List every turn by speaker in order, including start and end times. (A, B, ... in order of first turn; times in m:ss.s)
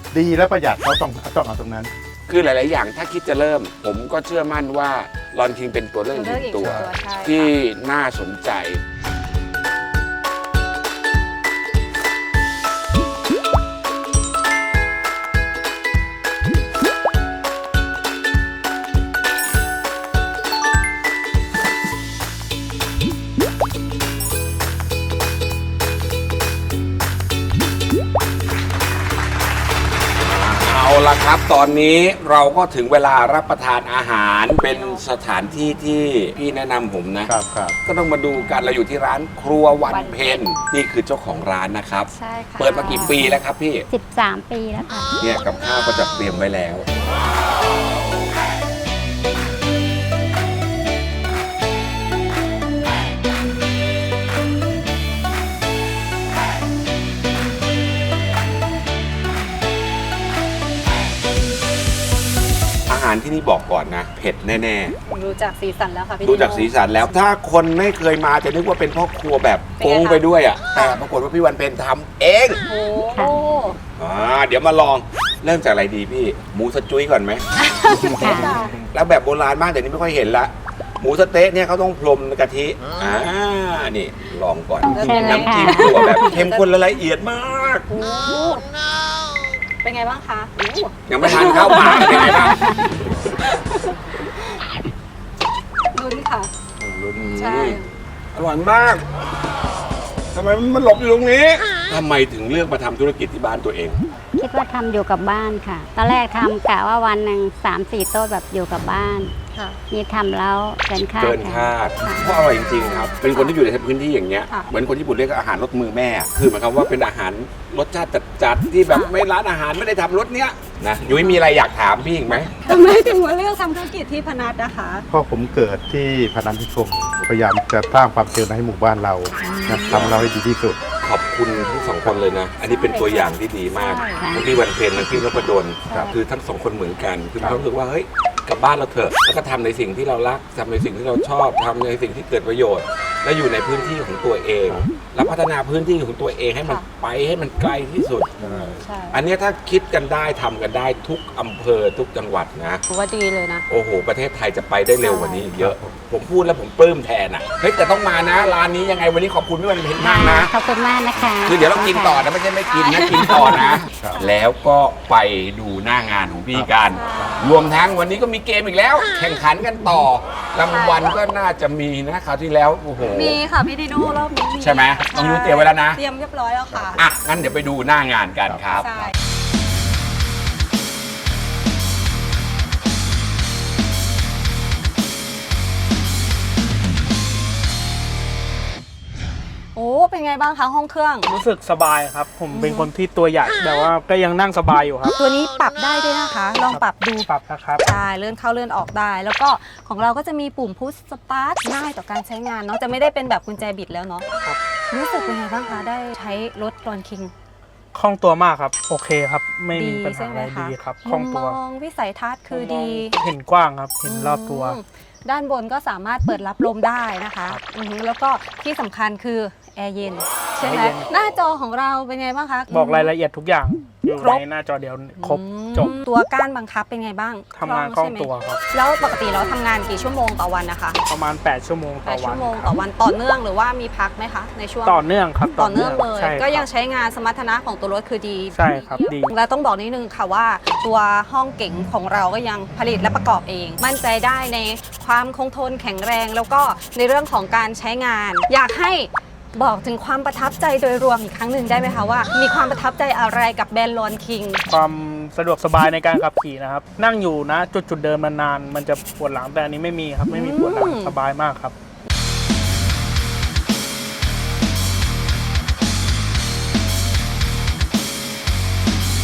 0:00.1-0:01.9 A
0:02.3-0:08.8 B
0:06.1-0:07.5 C
0:06.6-0:06.9 A
0:30.2-0:43.8 B
0:34.6-0:35.0 C
0:37.3-0:37.8 A
0:39.9-0:40.4 C
0:42.1-0:43.2 C
0:42.8-0:43.1 D
0:43.9-0:45.2 D
0:45.2-0:46.8 B
1:02.9-1:04.9 B
1:05.1-1:07.2 C
1:06.2-1:12.6 B
1:09.8-1:11.0 C
1:12.7-1:13.8 C
1:14.0-1:17.4 B
1:17.6-1:18.7 C
1:17.9-1:18.6 D
1:18.2-1:27.9 B
1:18.2-1:18.7 A
1:24.8-1:26.7 C
1:24.8-1:26.3 D
1:27.9-1:28.6 C
1:29.8-1:34.5 C
1:31.1-1:32.6 B
1:35.9-1:36.5 C
1:36.8-1:37.8 B
1:37.4-1:37.8 C
1:38.3-1:39.0 B
1:40.3-1:44.0 B
1:44.4-1:49.3 D
1:49.5-1:49.8 C
1:49.9-1:52.2 D
1:51.2-2:02.5 B
1:52.8-1:53.1 D
1:53.2-1:53.5 C
2:01.1-2:01.4 C
2:02.6-2:05.0 C
2:05.1-2:10.8 A
2:09.4-2:10.1 C
2:09.9-2:10.3 B
2:11.0-2:28.3 B
2:12.6-2:14.2 C
2:14.2-2:14.5 D
2:15.9-2:16.1 C
2:28.4-2:29.2 C
2:28.4-2:28.8 A
2:29.1-2:32.8 B
2:32.9-2:33.6 C
2:33.7-2:40.5 B
2:35.0-2:35.5 C
2:35.5-2:35.9 A
2:37.8-2:38.5 C
2:40.0-2:42.3 D
2:41.4-2:53.4 B
2:42.7-2:44.4 C
2:44.0-2:44.3 A
2:46.5-2:47.4 A
2:46.8-2:47.7 C
2:50.6-2:51.2 C
2:53.0-2:57.0 C
2:54.6-2:56.0 B
2:56.7-2:57.1 A
2:57.0-2:58.9 B
2:58.7-2:59.1 C
3:09.7-3:11.3 C
3:11.3-3:15.2 E
3:12.5-3:12.9 C
3:15.2-3:17.3 C
3:16.7-3:17.8 E
3:17.8-3:24.3 C
3:24.9-3:27.3 C
3:27.9-3:31.6 E
3:29.7-3:33.2 C
3:32.5-3:34.8 E
3:34.0-3:43.1 C
3:40.6-3:41.3 E
3:42.7-3:46.0 E
3:44.2-3:44.4 C
3:45.2-3:51.0 C
3:47.5-3:49.3 E
3:51.0-3:52.8 E
3:52.0-3:55.0 C
3:54.8-3:56.7 E
3:55.6-4:14.6 C
3:58.5-3:59.3 E
4:14.7-4:21.7 E
4:20.3-4:21.2 C